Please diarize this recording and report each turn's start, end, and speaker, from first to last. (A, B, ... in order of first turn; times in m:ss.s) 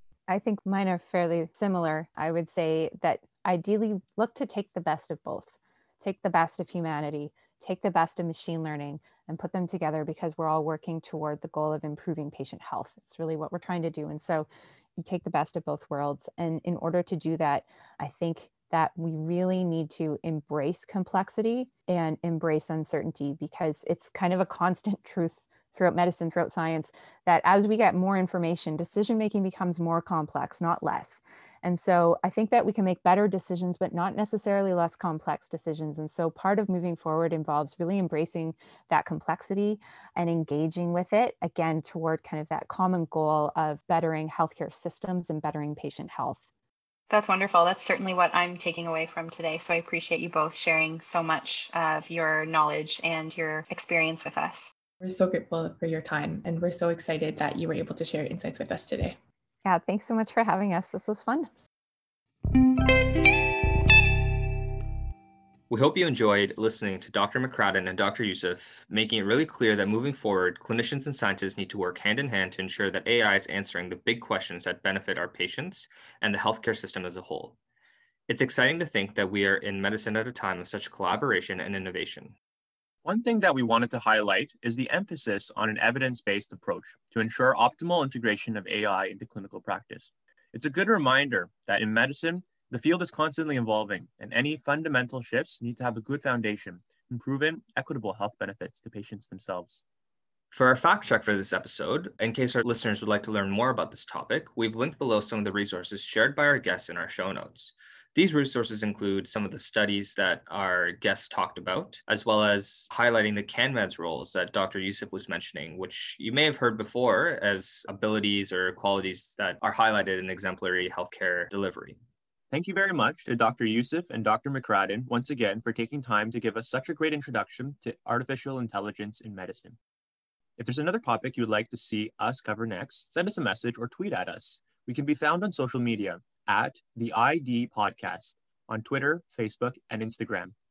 0:00.3-0:46.4 A
0:47.1-0:54.7 B
0:55.0-0:59.2 C
0:59.6-1:01.5 A
1:05.7-1:17.6 D
1:18.3-1:22.4 D
1:23.0-1:39.8 E
1:40.5-2:02.0 D
2:02.5-2:09.8 E
2:10.6-2:20.5 E